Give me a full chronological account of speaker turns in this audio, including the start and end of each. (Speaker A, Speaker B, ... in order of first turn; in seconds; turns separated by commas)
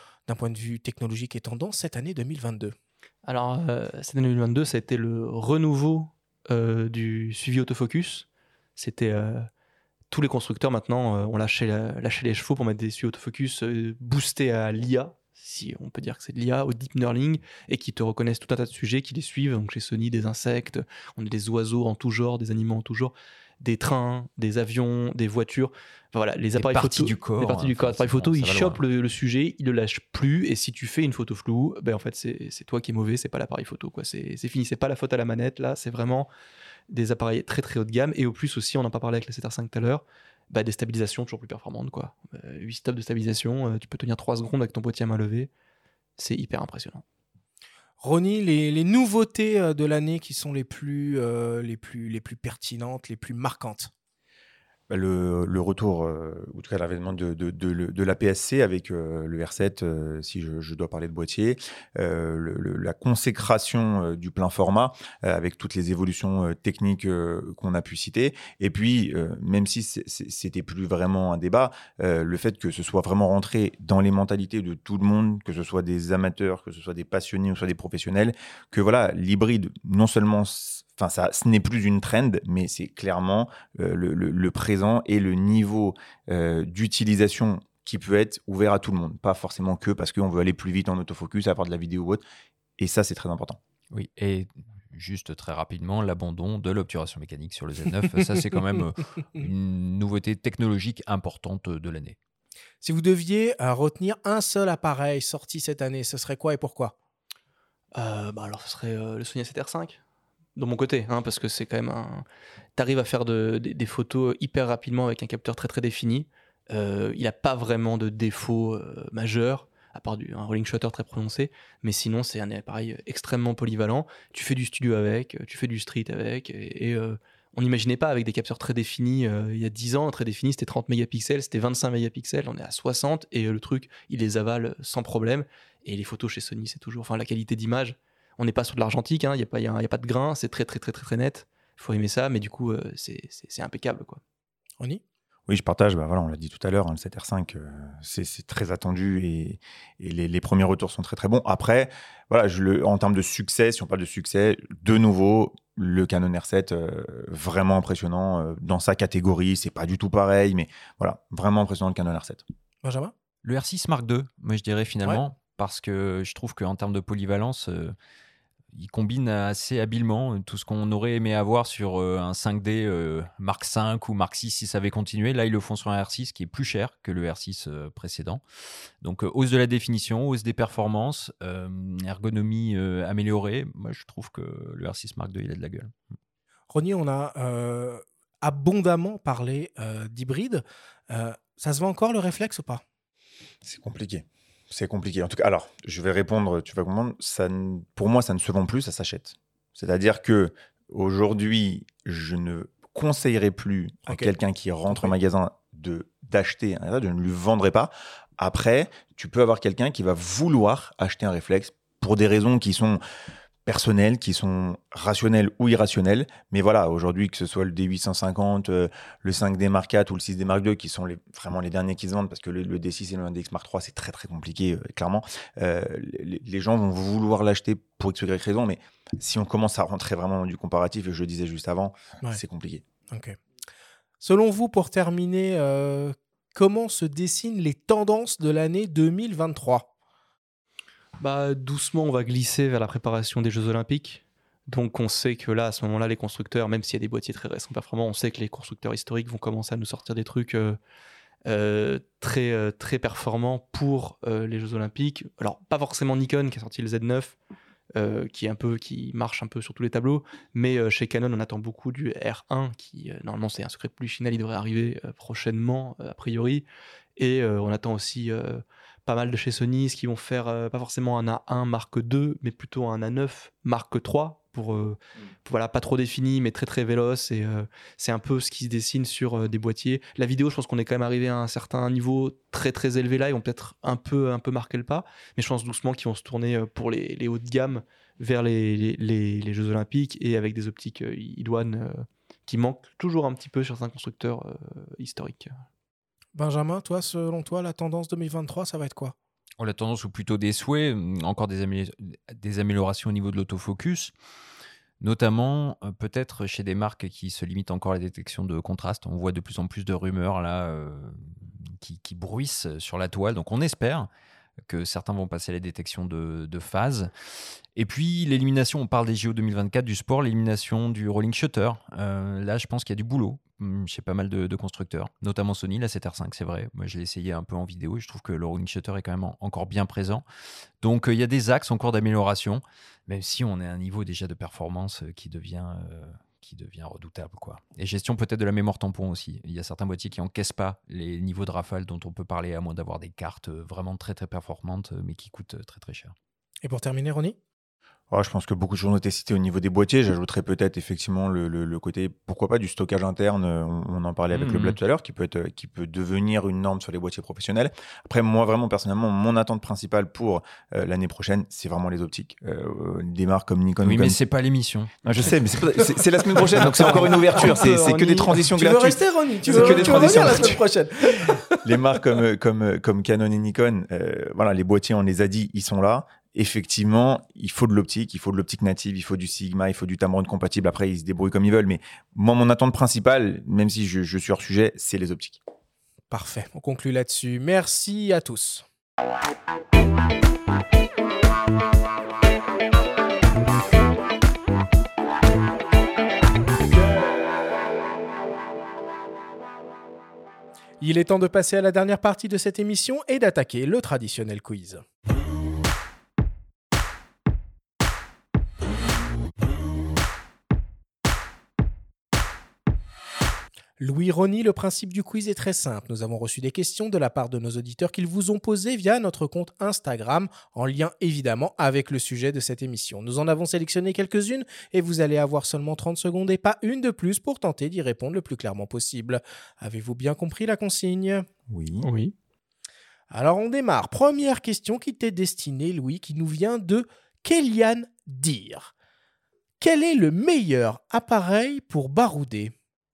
Speaker A: 0.3-2.7, Speaker B: 3.2-8.2, Speaker B: 8.8-9.5, Speaker B: 10.1-36.3, Speaker C: 26.6-28.8, Speaker B: 36.9-45.5, Speaker B: 46.2-47.0, Speaker A: 48.0-53.9, Speaker D: 54.9-92.2, Speaker D: 92.8-93.6, Speaker C: 93.9-102.2, Speaker A: 102.8-106.9, Speaker B: 107.9-110.0, Speaker B: 110.5-112.2, Speaker B: 112.8-144.2, Speaker D: 145.5-162.4, Speaker A: 162.8-163.1, Speaker C: 163.4-167.9, Speaker C: 168.7-178.4, Speaker C: 179.0-185.9, Speaker A: 186.7-192.8, Speaker D: 193.6-213.0, Speaker A: 204.1-204.3, Speaker D: 213.7-232.8, Speaker A: 233.1-233.4, Speaker A: 234.2-239.9, Speaker B: 241.2-250.8, Speaker B: 251.4-257.3, Speaker B: 257.9-266.6, Speaker B: 267.2-295.5, Speaker A: 296.4-299.1, Speaker C: 299.6-304.1, Speaker C: 305.0-314.1, Speaker C: 314.6-317.1, Speaker C: 317.8-330.2, Speaker C: 330.8-346.1, Speaker A: 346.6-347.4, Speaker D: 348.1-364.2, Speaker C: 354.3-354.8, Speaker C: 363.8-364.9, Speaker D: 365.0-370.6, Speaker C: 366.6-367.0, Speaker B: 366.7-368.2, Speaker A: 367.4-367.6, Speaker A: 368.2-371.6, Speaker C: 369.7-370.5, Speaker D: 371.2-385.4, Speaker A: 386.1-388.6, Speaker A: 400.8-404.8, Speaker A: 413.8-431.2, Speaker D: 431.5-431.9, Speaker B: 431.8-432.1, Speaker A: 433.1-438.7, Speaker A: 439.6-442.5